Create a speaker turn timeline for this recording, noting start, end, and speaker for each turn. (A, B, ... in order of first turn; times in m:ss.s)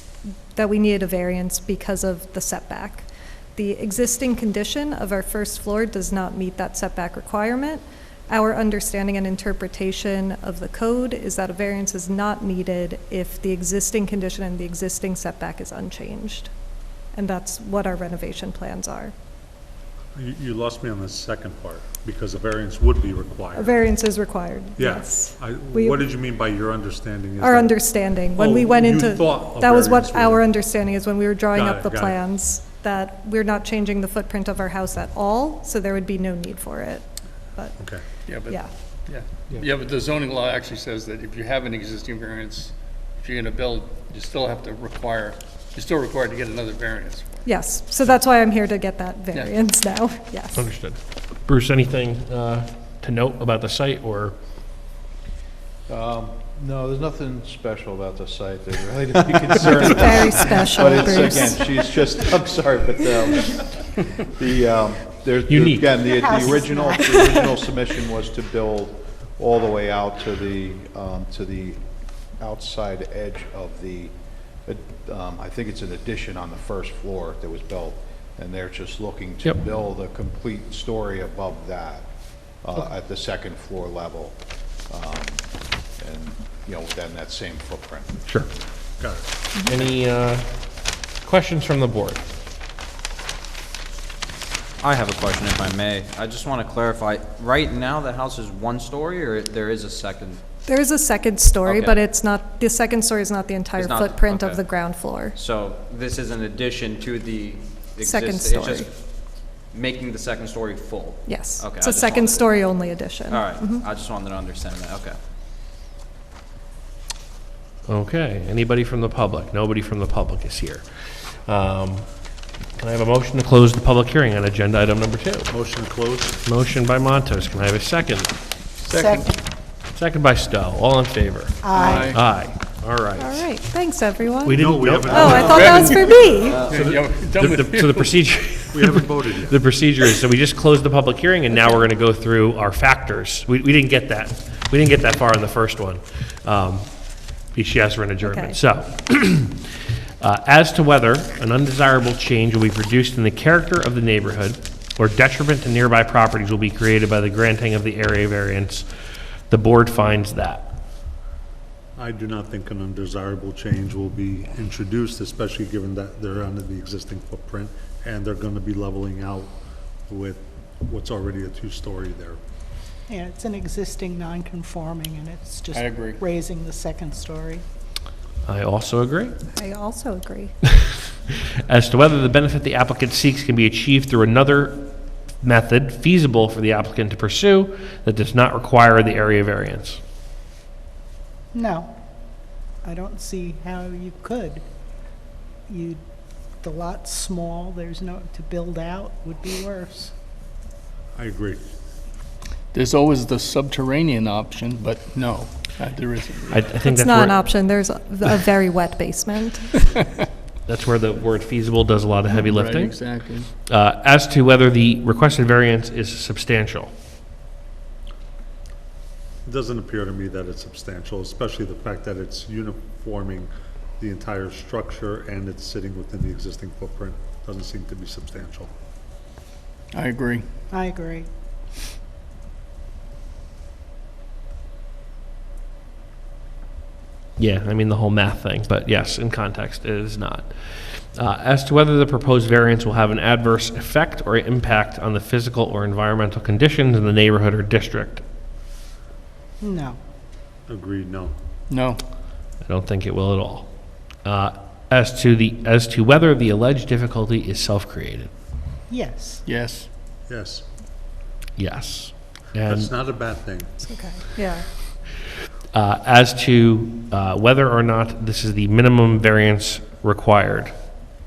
0:00.6-0:16.5 A
0:17.1-0:19.1 A
0:20.2-0:23.8 B
0:23.5-0:26.0 A
0:24.8-0:27.8 B
0:27.4-0:37.8 A
0:28.3-0:30.5 B
0:31.5-0:32.2 B
0:37.8-0:38.0 B
0:38.3-0:47.5 C
0:47.4-0:50.6 A
0:49.3-0:49.6 C
0:50.6-0:54.4 D
0:55.9-1:11.8 E
0:59.8-1:01.6 A
1:05.5-1:06.0 D
1:06.1-1:07.7 F
1:12.4-1:14.1 E
1:14.7-1:22.1 E
1:22.6-1:24.4 E
1:24.9-1:25.4 E
1:26.0-1:28.2 E
1:29.0-1:29.9 B
1:29.7-1:30.5 D
1:31.2-1:32.2 D
1:34.8-1:40.4 G
1:40.6-1:45.4 A
1:41.7-1:42.0 G
1:43.8-1:44.6 G
1:45.4-1:52.6 G
1:48.0-1:48.9 A
1:51.3-1:53.8 A
1:53.3-1:55.2 G
1:57.9-2:05.5 D
2:05.5-2:06.4 B
2:06.4-2:08.3 D
2:08.8-2:09.3 C
2:08.9-2:09.4 F
2:09.9-2:13.5 D
2:11.6-2:12.2 F
2:11.8-2:12.2 C
2:13.2-2:16.7 A
2:14.4-2:15.6 D
2:14.6-2:17.1 B
2:15.4-2:18.2 C
2:16.5-2:16.8 G
2:17.4-2:38.9 D
2:18.7-2:19.5 B
2:21.5-2:21.8 A
2:28.2-2:28.6 A
2:39.5-2:40.7 D
2:42.0-2:49.6 B
2:50.1-2:52.4 B
2:53.1-2:57.6 F
2:55.7-2:56.2 C
2:58.4-2:59.4 D
2:59.5-3:00.6 A
3:01.7-3:10.0 D
3:11.5-3:11.9 F
3:12.8-3:14.6 F
3:15.7-3:16.0 F
3:16.6-3:20.1 F
3:21.2-3:21.6 B
3:22.7-3:26.7 C
3:26.5-3:27.4 D
3:26.8-3:29.8 A
3:30.7-3:36.9 D
3:32.4-3:33.5 C
3:39.4-3:48.7 B
3:49.9-3:50.5 C
3:50.7-3:51.3 F
3:57.4-4:08.2 D
4:09.6-4:10.0 F
4:10.7-4:11.3 B
4:11.7-4:12.0 C
4:12.6-4:18.3 D
4:18.9-4:19.4 F
4:19.5-4:19.9 C
4:20.3-4:20.7 B
4:21.6-4:22.9 D
4:22.6-4:23.8 B
4:23.8-4:24.7 A
4:25.7-4:30.7 D